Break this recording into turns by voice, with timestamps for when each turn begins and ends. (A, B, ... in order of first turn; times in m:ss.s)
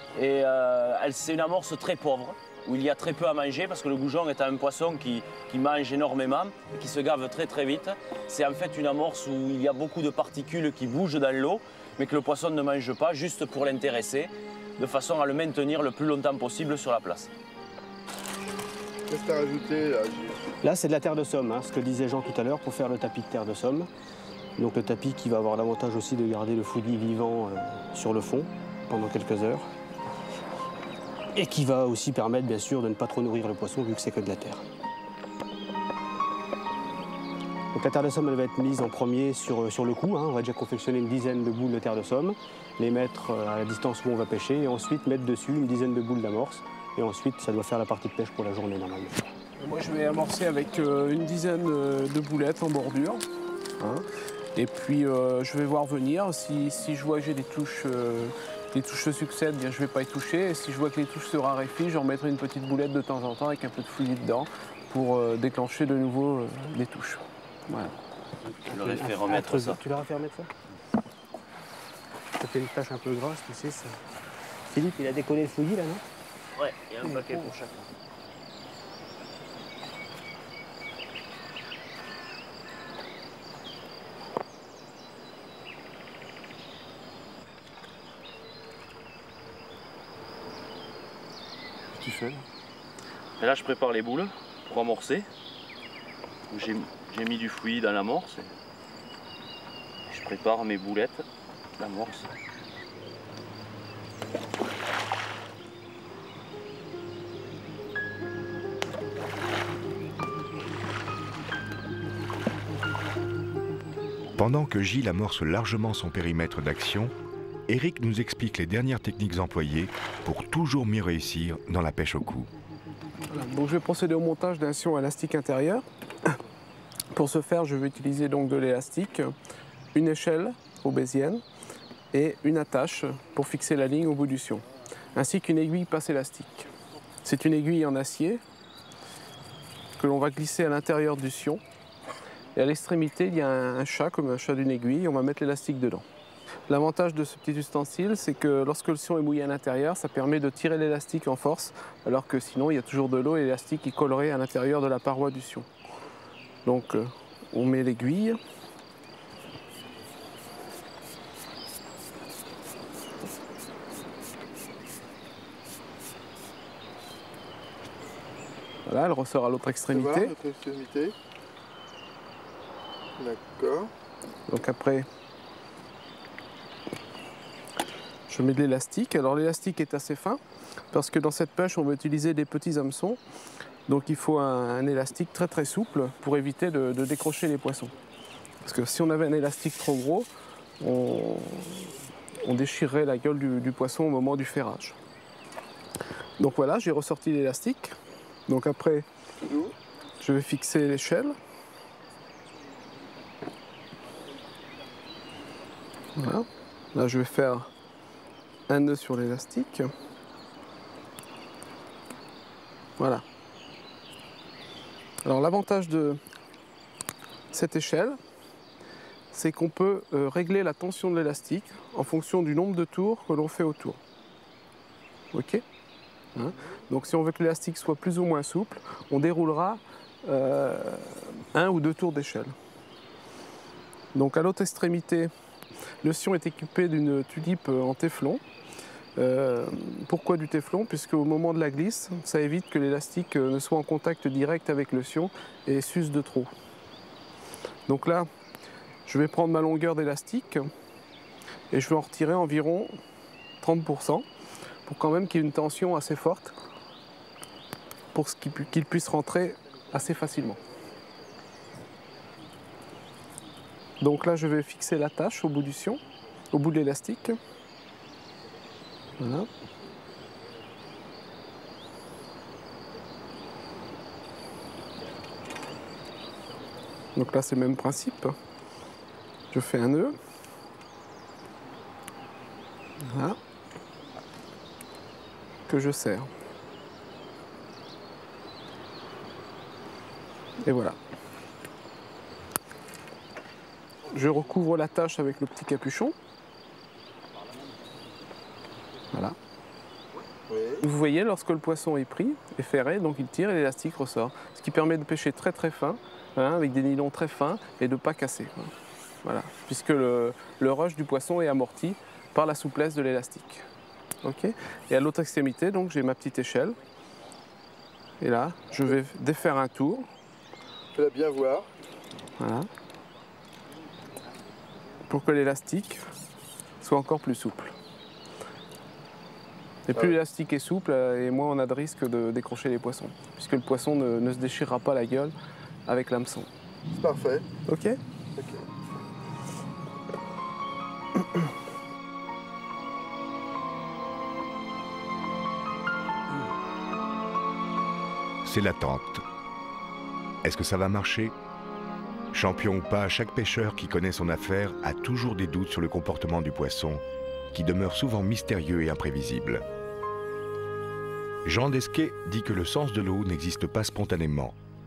0:00.2-0:17.3 A
0:19.1-0:20.4 B
0:20.6-0:23.9 C
0:24.6-0:29.7 C
0:31.4-0:34.6 C
0:37.7-0:49.3 C
0:49.6-0:53.2 D
0:53.8-1:07.9 D
1:08.4-1:09.8 A
1:08.7-1:10.5 C
1:12.4-1:14.0 C
1:14.7-1:16.1 C
1:16.6-1:17.9 A
1:32.0-1:32.4 B
1:33.4-1:35.3 A
1:36.5-1:38.6 A
1:40.1-1:41.2 A
1:41.8-1:42.3 A
1:54.4-1:57.1 E
1:57.7-2:02.5 E
2:03.3-2:06.4 D
2:07.1-2:09.3 D
2:09.9-2:11.4 D
2:12.1-2:16.7 D
2:17.2-2:18.4 D
2:20.0-2:21.6 D
2:22.6-2:26.0 D
2:26.7-2:35.7 D
2:36.6-2:38.4 D
2:48.9-2:50.3 D
2:49.9-2:51.2 B
2:53.2-2:53.9 B
2:54.5-2:55.1 D
2:58.3-3:00.4 D
3:00.9-3:03.2 D
3:03.9-3:07.9 D
3:08.6-3:10.3 D
3:10.8-3:11.9 D
3:12.4-3:15.0 D
3:16.4-3:18.0 D
3:18.5-3:19.1 D
3:20.2-3:21.4 D
3:26.2-3:27.7 D
3:28.7-3:29.9 D
3:33.0-3:33.2 D
3:35.2-3:36.2 D
3:37.5-3:38.2 D
3:39.3-3:44.0 D
3:45.3-3:45.6 D
3:46.4-3:52.5 D
3:54.1-3:55.3 D
3:56.0-3:58.4 D
3:59.2-4:06.5 D
4:07.9-4:08.3 D
4:09.1-4:10.7 D
4:11.7-4:13.0 D
4:13.6-4:14.2 D
4:14.9-4:16.5 D
4:18.1-4:20.6 D
4:24.0-4:26.0 D
4:26.5-4:27.4 D
4:29.2-4:29.5 D
4:37.2-4:38.4 D
4:39.5-4:40.2 D
4:43.0-4:43.4 D
4:45.7-4:46.3 D
4:50.6-4:51.0 D
4:54.1-4:56.2 D
5:00.5-5:00.8 B
5:00.8-5:08.7 D
5:09.2-5:13.7 D
5:14.2-5:16.8 D
5:18.2-5:20.1 D
5:21.0-5:21.7 B
5:22.4-5:22.7 D
5:25.1-5:26.0 D
5:26.8-5:27.7 D
5:29.9-5:35.3 D
5:35.9-5:36.5 D
5:36.9-5:37.5 B
5:37.7-5:38.0 D
5:38.4-5:38.6 B
5:48.4-5:49.2 E
5:50.4-5:51.4 E
5:52.3-5:59.6 E
6:01.4-6:04.6 E